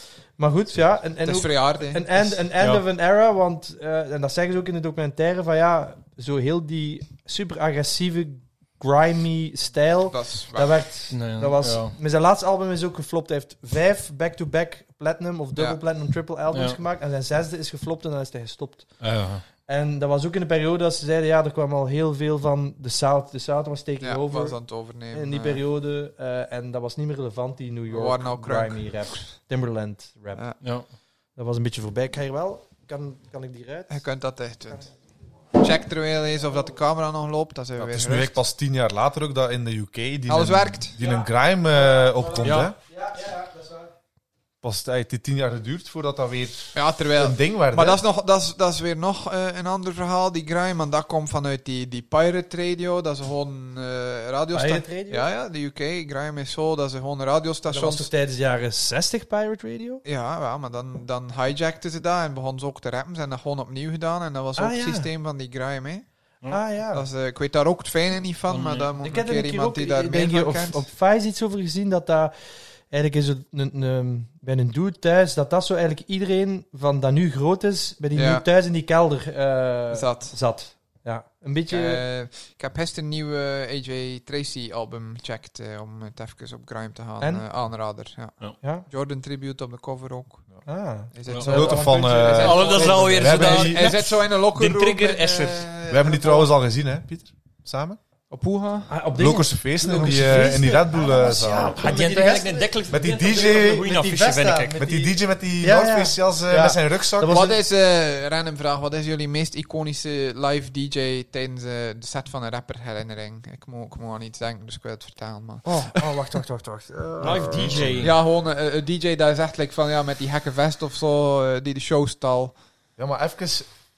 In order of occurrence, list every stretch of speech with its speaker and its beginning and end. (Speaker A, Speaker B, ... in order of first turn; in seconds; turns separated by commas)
Speaker A: 0.4-19.0, Speaker B: 1.2-2.4, Speaker B: 10.1-10.7, Speaker C: 11.1-11.9, Speaker C: 16.5-16.8, Speaker C: 19.0-19.4, Speaker A: 19.7-24.6, Speaker B: 24.0-25.6, Speaker A: 25.1-30.6, Speaker B: 27.9-29.2, Speaker A: 31.4-33.9, Speaker B: 33.9-34.9, Speaker B: 35.5-38.4, Speaker D: 37.8-42.8, Speaker B: 40.3-41.0, Speaker A: 41.9-43.9, Speaker C: 42.4-42.7, Speaker D: 44.6-48.0, Speaker B: 46.7-58.1, Speaker A: 54.5-55.2, Speaker A: 57.7-60.0, Speaker B: 60.0-66.0, Speaker A: 64.6-65.1, Speaker A: 66.5-67.0, Speaker B: 66.9-70.9, Speaker C: 68.5-68.9, Speaker A: 69.0-72.3, Speaker A: 72.9-82.0, Speaker B: 78.1-78.4, Speaker B: 79.9-80.4, Speaker B: 81.7-90.5, Speaker A: 90.7-93.0, Speaker B: 91.1-96.5, Speaker D: 91.5-94.0, Speaker C: 92.4-95.7, Speaker D: 95.9-98.0, Speaker B: 98.3-98.9, Speaker A: 98.9-107.6, Speaker D: 99.1-101.8, Speaker C: 101.8-104.8, Speaker D: 102.9-103.8, Speaker D: 104.8-107.4, Speaker B: 107.3-116.0, Speaker A: 115.6-118.0, Speaker C: 117.2-118.1, Speaker D: 117.6-118.0, Speaker B: 118.0-122.6, Speaker D: 123.0-123.7